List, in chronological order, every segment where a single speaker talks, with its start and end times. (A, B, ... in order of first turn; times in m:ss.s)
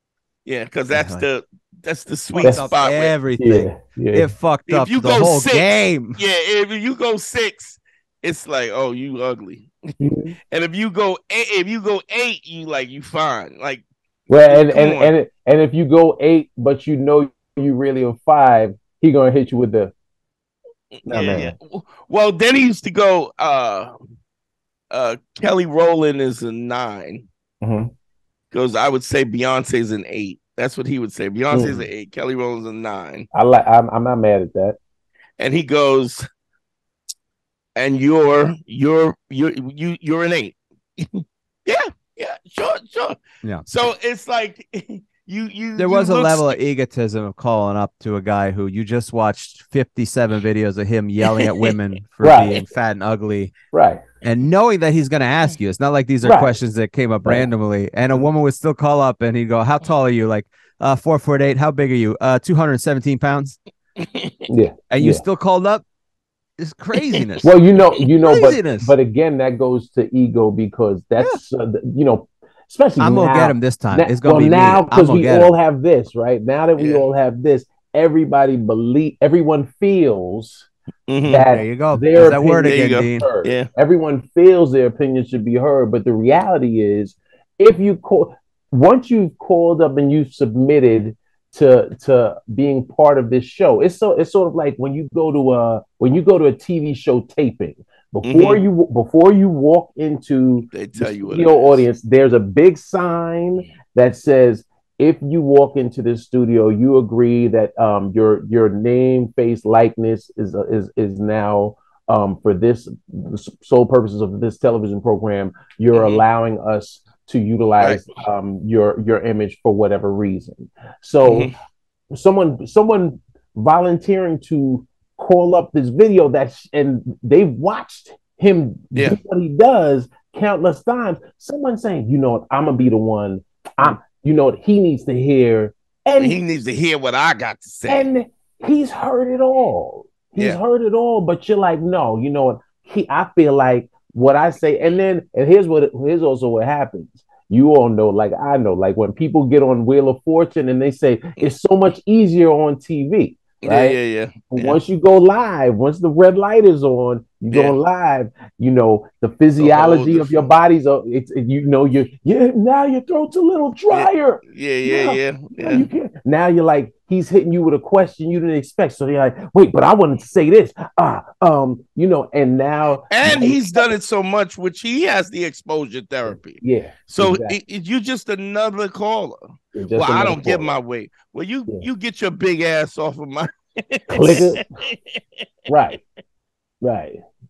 0:00.4-0:03.1 A
0:00.9-0:01.2 B
0:02.4-0:06.2 B
0:02.4-0:02.6 C
0:03.4-0:04.3 C
0:04.7-0:09.9 A
0:10.0-0:10.3 C
0:10.5-0:13.8 A
0:14.3-0:19.9 C
0:14.4-0:15.1 A
0:21.0-0:24.0 A
0:21.0-0:21.5 C
0:24.9-0:27.3 A
0:27.6-0:27.9 C
0:28.5-0:33.3 A
0:31.5-0:31.9 C
0:33.3-0:34.8 C
0:35.4-0:36.2 A
0:37.8-0:46.5 A
0:45.8-0:53.5 B
0:51.2-0:51.7 A
0:52.2-0:52.6 C
0:53.7-0:54.0 C
0:54.2-1:03.6 B
0:56.2-0:56.5 C
0:57.2-0:57.5 C
1:04.0-1:04.5 A
1:04.5-1:05.2 C
1:04.9-1:05.8 B
1:06.6-1:07.5 B
1:07.4-1:20.7 C
1:08.2-1:08.9 B
1:13.0-1:15.5 B
1:16.8-1:17.0 A
1:21.1-1:21.5 A
1:21.3-2:01.5 C
1:21.5-1:23.3 B
1:22.6-1:23.7 A
1:38.2-1:38.6 A
1:40.7-1:41.8 A
1:55.9-1:56.2 A
1:57.8-1:58.1 A
2:01.2-2:01.5 A
2:02.1-2:16.4 C
2:08.9-2:09.2 A
2:16.2-2:18.1 A
2:17.9-2:34.0 C
2:33.6-2:34.8 A
2:34.5-2:54.0 C
2:37.5-2:37.8 A
2:39.6-2:40.5 A
2:43.9-2:45.9 A
2:53.1-3:05.4 A
2:56.3-2:57.6 C
2:59.7-3:00.7 C
3:04.1-3:04.6 C
3:05.7-3:06.0 C
3:06.8-3:07.2 C